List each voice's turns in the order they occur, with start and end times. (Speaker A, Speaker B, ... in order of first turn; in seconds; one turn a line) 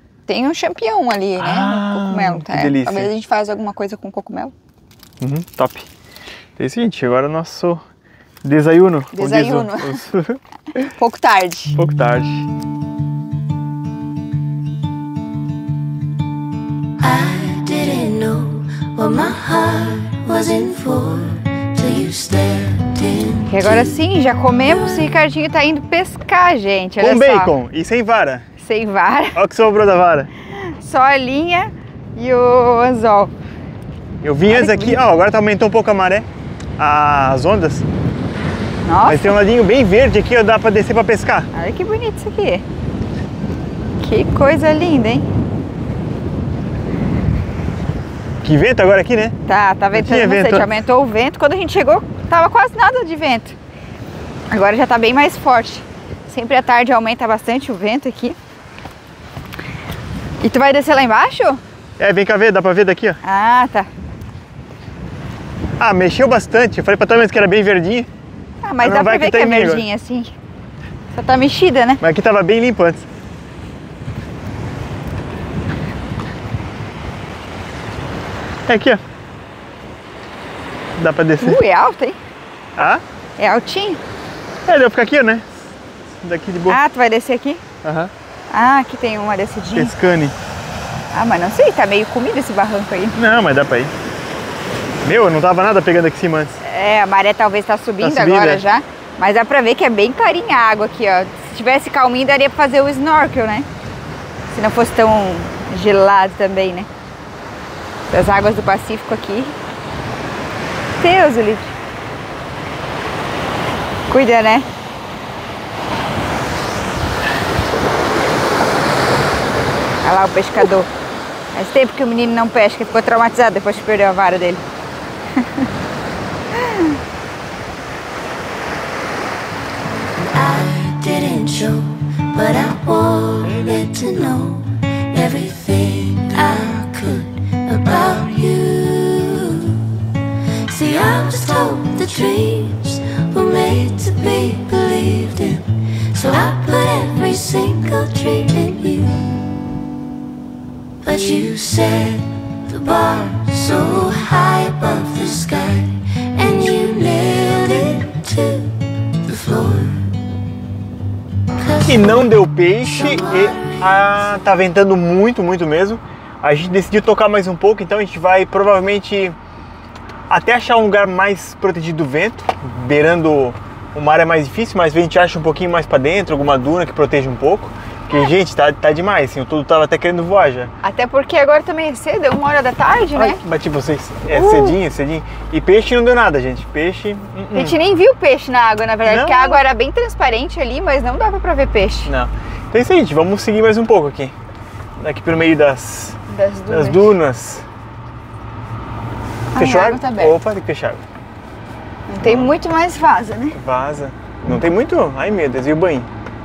Speaker A: 0.3-4.5
Speaker B: 1.4-3.1
Speaker B: 5.2-5.9
Speaker B: 6.6-7.8
Speaker B: 8.4-10.4
Speaker A: 9.1-10.1
Speaker A: 10.8-11.8
Speaker B: 11.8-12.5
Speaker C: 17.0-24.0
Speaker A: 23.5-27.5
Speaker C: 24.6-25.1
Speaker B: 27.0-28.5
Speaker A: 28.6-29.4
Speaker B: 29.3-30.3
Speaker A: 30.5-33.3
Speaker B: 34.2-37.9
Speaker A: 34.5-35.0
Speaker A: 38.8-39.4
Speaker B: 39.0-41.5
Speaker A: 41.5-42.6
Speaker A: 44.0-45.2
Speaker B: 48.4-49.4
Speaker A: 49.5-53.5
Speaker B: 49.9-50.8
Speaker A: 54.5-58.4
Speaker A: 60.4-61.6
Speaker B: 62.0-63.2
Speaker A: 63.2-63.9
Speaker B: 65.8-68.1
Speaker A: 68.6-70.3
Speaker B: 68.8-69.9
Speaker A: 71.1-72.0
Speaker B: 72.0-73.1
Speaker B: 78.7-79.0
Speaker B: 81.0-81.6
Speaker A: 81.4-82.2
Speaker B: 82.8-83.0
Speaker A: 83.4-84.0
Speaker B: 84.7-85.4
Speaker B: 86.2-86.8
Speaker A: 86.7-87.6
Speaker B: 87.8-88.1
Speaker A: 88.5-89.9
Speaker B: 89.7-90.3
Speaker A: 91.1-93.2
Speaker B: 93.1-93.9
Speaker B: 95.0-96.6
Speaker A: 96.6-103.7
Speaker B: 98.0-98.6
Speaker A: 104.5-106.9
Speaker A: 108.1-109.5
Speaker A: 111.0-111.7
Speaker A: 114.1-114.7
Speaker A: 120.0-120.9
Speaker A: 121.5-124.6
Speaker A: 125.4-125.6
Speaker A: 126.6-126.9
Speaker C: 130.2-140.0
Speaker C: 140.7-149.3
Speaker C: 151.0-160.2
Speaker C: 161.6-164.1
Speaker B: 161.8-169.4
Speaker B: 170.3-180.7
Speaker A: 180.8-183.4
Speaker B: 183.1-187.8
Speaker A: 184.3-184.8
Speaker A: 187.5-192.1
Speaker B: 189.0-189.6
Speaker B: 192.1-194.3
Speaker B: 195.0-197.7
Speaker A: 196.3-197.2
Speaker A: 199.5-200.3
Speaker B: 199.5-201.0
Speaker A: 202.1-203.6
Speaker B: 202.2-202.6
Speaker B: 203.5-206.1